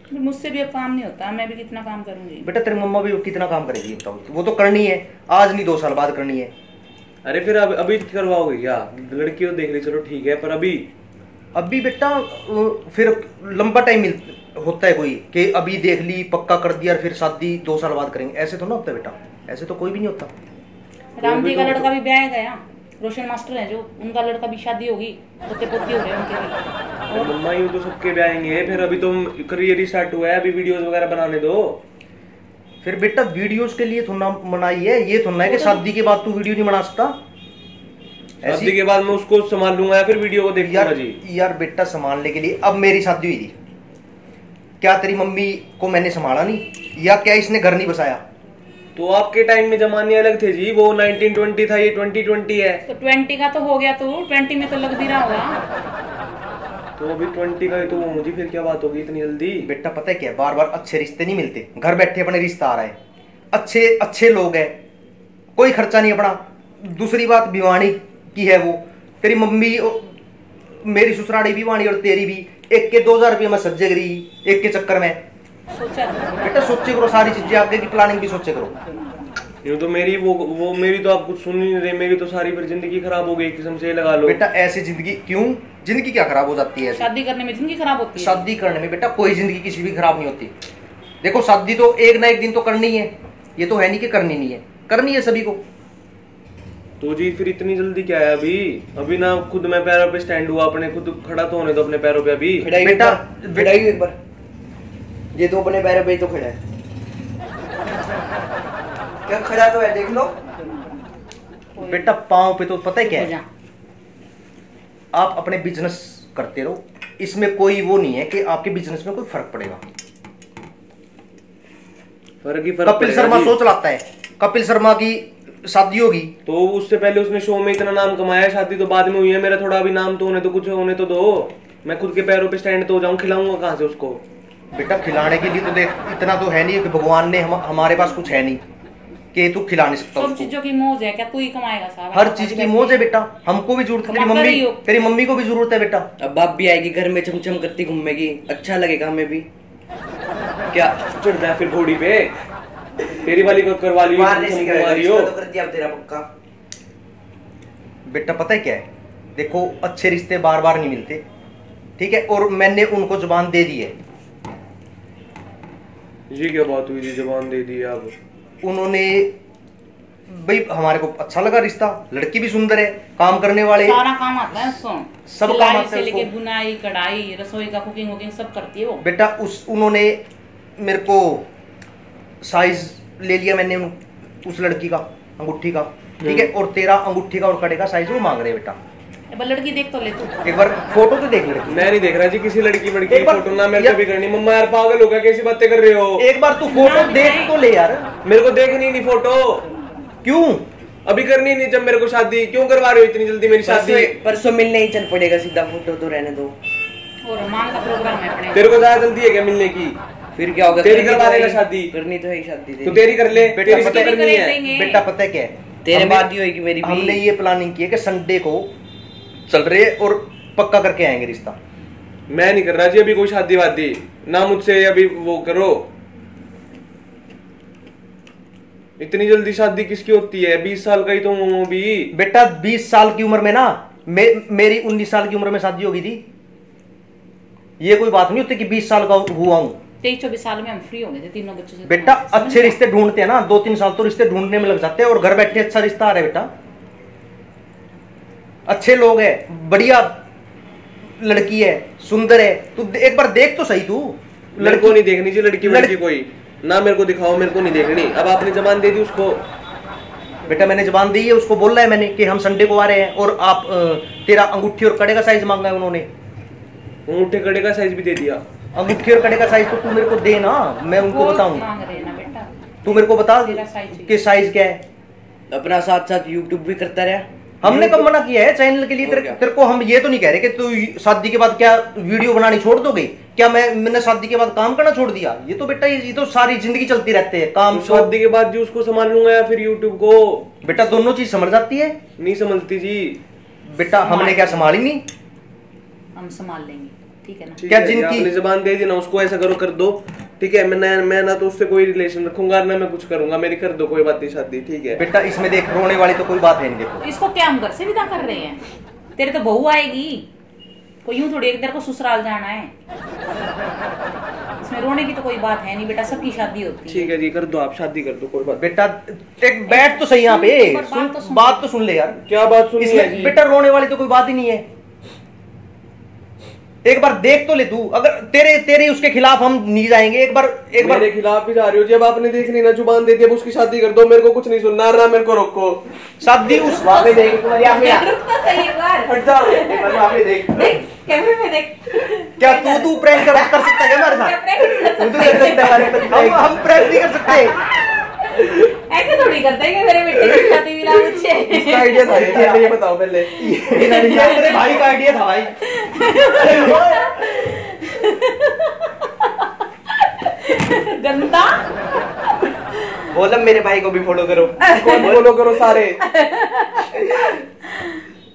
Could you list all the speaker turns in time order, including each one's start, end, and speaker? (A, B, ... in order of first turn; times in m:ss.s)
0:00.1-0:02.5 A
0:02.4-0:06.5 B
0:07.2-0:10.9 C
0:11.5-0:20.3 B
0:21.2-0:26.6 A
0:21.2-0:21.9 C
0:27.1-0:27.4 A
0:27.1-0:31.8 C
0:32.8-0:37.2 B
0:35.4-0:35.8 A
0:38.4-0:41.2 C
0:38.4-0:38.7 B
0:40.6-0:43.5 B
0:44.8-0:48.2 B
0:49.0-0:52.8 C
0:52.9-0:55.6 A
0:57.0-0:59.7 C
0:59.6-1:03.0 B
1:03.5-1:04.7 B
1:05.6-1:10.1 B
1:10.8-1:15.2 B
1:15.7-1:17.3 A
1:16.4-1:18.7 B
1:19.6-1:24.4 C
1:24.2-1:27.1 B
1:26.9-1:28.5 A
1:28.1-1:30.5 B
1:31.2-1:35.6 B
1:37.0-1:42.7 C
1:42.6-1:44.2 D
1:42.8-1:43.8 B
1:45.3-1:46.6 D
1:49.2-1:50.4 D
1:51.8-1:52.1 A
1:51.8-1:53.3 B
1:53.0-1:53.4 A
1:55.1-1:59.8 B
2:02.4-2:03.6 C
2:02.8-2:06.3 B
2:06.4-2:14.2 C
2:14.7-2:18.6 B
2:19.3-2:20.5 B
2:20.1-2:23.1 A
2:22.1-2:26.1 B
2:24.1-2:24.9 A
2:26.2-2:29.5 D
2:30.7-2:31.0 D
2:31.1-2:32.4 C
2:33.2-2:35.4 C
2:34.0-2:36.3 D
2:38.0-2:41.2 B
2:42.0-2:43.9 B
2:46.3-2:48.1 C
2:48.6-2:49.3 B
2:50.3-2:54.0 B
2:53.8-2:59.0 A
2:55.3-2:56.3 B
2:59.0-3:00.2 B
3:00.8-3:01.4 B
3:02.4-3:08.8 B
3:06.2-3:06.5 C
3:09.3-3:10.4 A
3:10.4-3:11.9 B
3:11.7-3:16.2 C
3:13.1-3:14.0 B
3:16.2-3:18.0 B
3:16.7-3:17.6 A
3:18.2-3:19.7 C
3:20.2-3:20.6 B
3:21.0-3:24.1 C
3:23.6-3:26.6 D
3:27.2-3:28.7 A
3:28.5-3:30.0 C
3:30.3-3:33.0 D
3:30.8-3:31.9 C
3:32.8-3:34.6 C
3:33.5-3:38.7 B
3:33.6-3:35.0 A
3:35.8-3:37.2 D
3:39.5-3:41.6 B
3:42.3-3:45.9 C
3:49.0-3:52.1 C
3:52.1-3:56.2 B
3:57.8-3:59.8 B
4:00.0-4:02.8 A
4:01.8-4:06.5 B
4:08.7-4:10.2 B
4:11.2-4:15.0 B
4:14.6-4:19.4 C
4:15.6-4:15.9 B
4:20.5-4:26.1 B
4:27.1-4:28.4 C
4:28.7-4:31.7 B
4:31.0-4:32.5 A
4:32.8-4:34.8 B
4:33.4-4:34.2 A
4:35.5-4:37.3 D
4:37.6-4:48.1 B
4:37.6-4:38.1 C
4:39.0-4:39.4 D
4:47.7-4:50.5 C
4:50.6-4:52.0 B
4:52.2-4:53.2 C
4:53.6-4:55.0 B
4:53.9-4:54.8 A
4:56.1-4:57.6 A
4:57.6-5:05.0 C
4:57.7-4:58.3 B
5:05.0-5:07.0 B
5:07.0-5:08.6 A
5:09.2-5:10.3 A
5:11.0-5:12.7 A
5:14.6-5:17.1 A
5:16.9-5:18.7 C
5:18.5-5:22.2 B
5:19.7-5:21.6 A
5:22.2-5:23.4 C
5:22.8-5:24.6 B
5:26.8-5:31.0 B
5:30.8-5:35.9 C
5:36.2-5:37.1 B
5:36.5-5:46.2 A
5:36.8-5:38.1 D
5:37.0-5:37.4 C
5:39.0-5:40.2 C
5:39.8-5:40.7 D
5:42.4-5:47.6 B
5:45.0-5:46.8 D
5:47.3-5:52.0 A
5:51.5-5:53.3 C
5:52.0-5:52.7 D
5:52.1-5:52.6 B
5:53.4-5:55.5 B
5:53.4-5:55.0 A
5:55.6-6:01.7 A
6:03.1-6:05.3 D
6:04.6-6:05.1 A
6:04.7-6:06.0 C
6:06.0-6:07.8 A